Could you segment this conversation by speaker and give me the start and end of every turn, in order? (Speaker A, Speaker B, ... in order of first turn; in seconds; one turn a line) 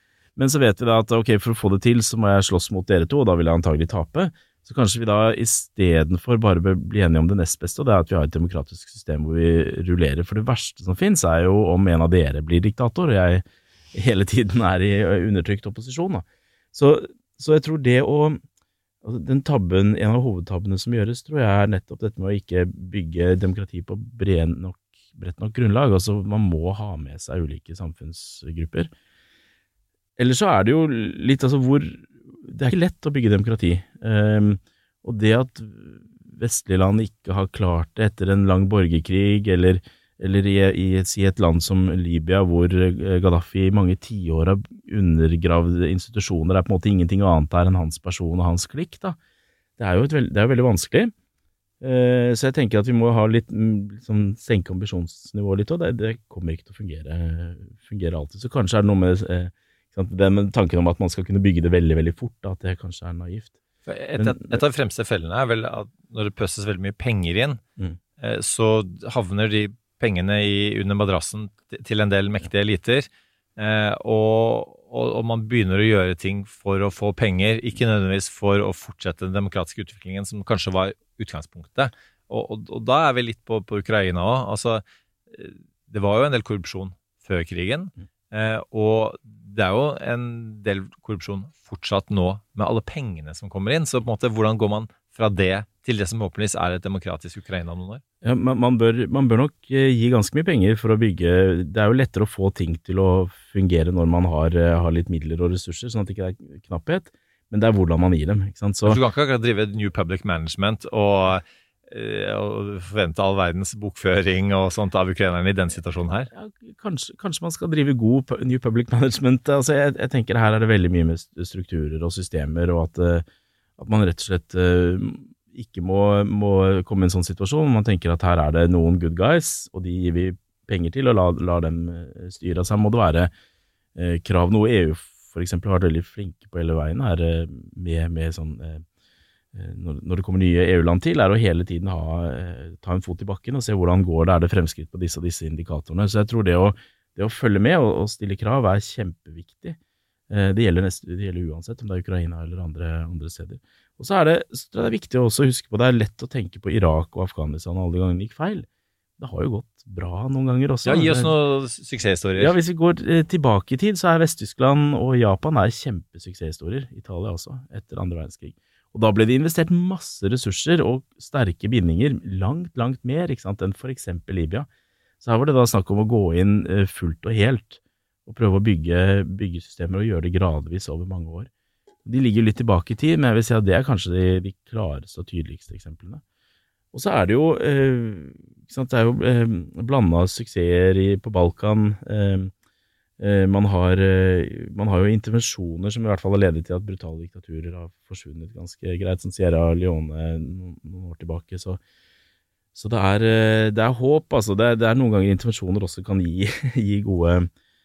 Speaker A: 0.4-18.4
Speaker A: 19.0-28.9
Speaker A: 30.2-49.2
Speaker A: 49.8-51.1
Speaker A: 51.8-63.6
Speaker B: 63.9-67.6
Speaker A: 64.2-64.6
Speaker B: 68.2-98.0
Speaker A: 98.2-109.0
Speaker B: 108.9-116.3
Speaker A: 116.3-123.3
Speaker A: 123.8-133.3
Speaker A: 134.0-138.8
Speaker A: 139.5-149.8
Speaker A: 150.3-158.7
Speaker A: 159.2-161.3
Speaker B: 160.8-162.6
Speaker A: 162.4-174.7
Speaker A: 175.2-181.5
Speaker A: 182.1-186.2
Speaker A: 186.9-192.5
Speaker A: 193.2-201.8
Speaker A: 202.8-207.5